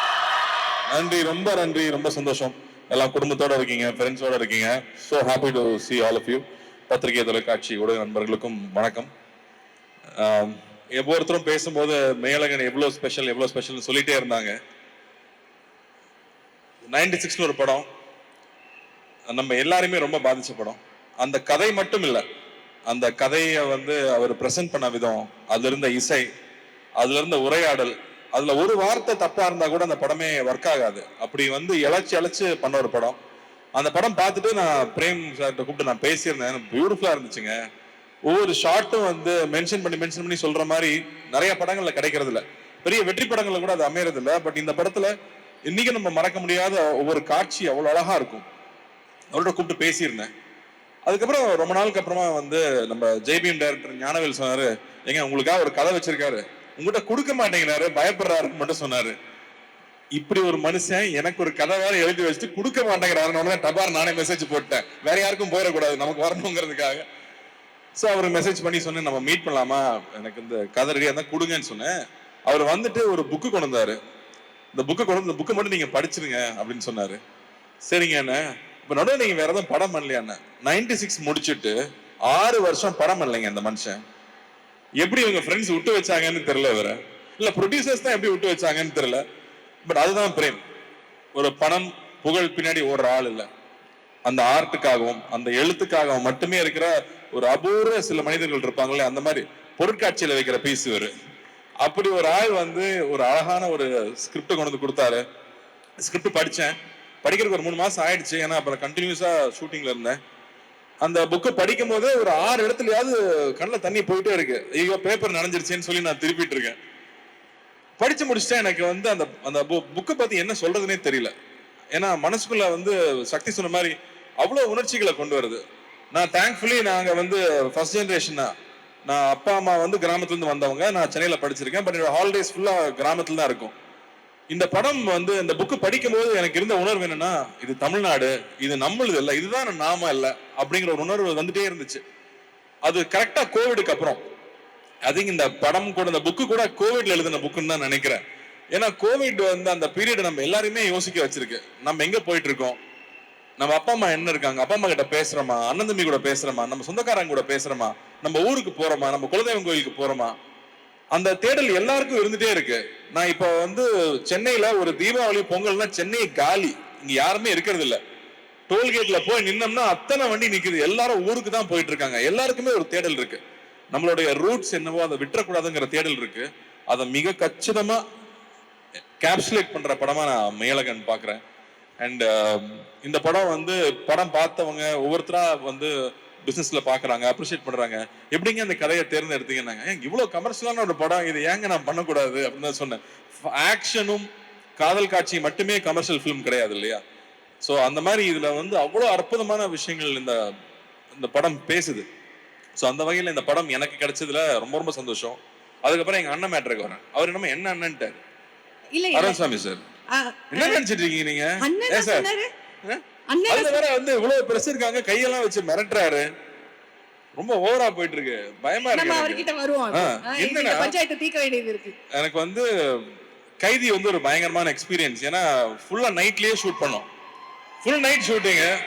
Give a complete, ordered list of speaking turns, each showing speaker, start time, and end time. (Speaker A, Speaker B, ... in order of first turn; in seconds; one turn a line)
Speaker A: 0.9-9.1
Speaker A: 10.2-14.5
Speaker A: 16.8-17.9
Speaker A: 19.3-22.2
Speaker A: 22.9-26.3
Speaker A: 27.0-33.2
Speaker A: 33.8-37.5
Speaker A: 38.2-45.1
Speaker A: 45.7-48.4
Speaker A: 49.3-50.3
Speaker A: 51.0-59.1
Speaker A: 60.1-67.0
Speaker A: 68.0-71.9
Speaker A: 72.5-74.0
Speaker A: 74.7-77.2
Speaker A: 77.9-81.7
Speaker A: 82.3-84.0
Speaker A: 85.0-89.2
Speaker A: 89.8-90.6
Speaker A: 91.3-93.5
Speaker A: 94.2-101.1
Speaker A: 101.8-105.2
Speaker A: 106.0-110.2
Speaker A: 111.0-116.8
Speaker A: 118.0-121.3
Speaker A: 121.9-128.5
Speaker A: 129.1-133.7
Speaker A: 134.5-142.0
Speaker A: 142.8-144.2
Speaker A: 145.1-148.2
Speaker A: 148.7-152.8
Speaker A: 153.6-160.3
Speaker A: 161.1-168.0
Speaker A: 168.7-173.4
Speaker A: 173.9-178.0
Speaker A: 179.2-181.4
Speaker A: 182.0-185.9
Speaker A: 186.4-194.3
Speaker A: 194.8-197.0
Speaker A: 197.6-200.4
Speaker A: 201.1-202.0
Speaker A: 202.8-208.2
Speaker B: 208.9-209.4
Speaker A: 209.1-209.8
Speaker B: 210.1-210.8
Speaker A: 210.5-212.3
Speaker B: 211.6-212.5
Speaker A: 212.8-216.2
Speaker B: 213.3-213.8
Speaker A: 217.4-220.9
Speaker B: 218.9-221.9
Speaker A: 222.1-227.1
Speaker A: 227.8-228.7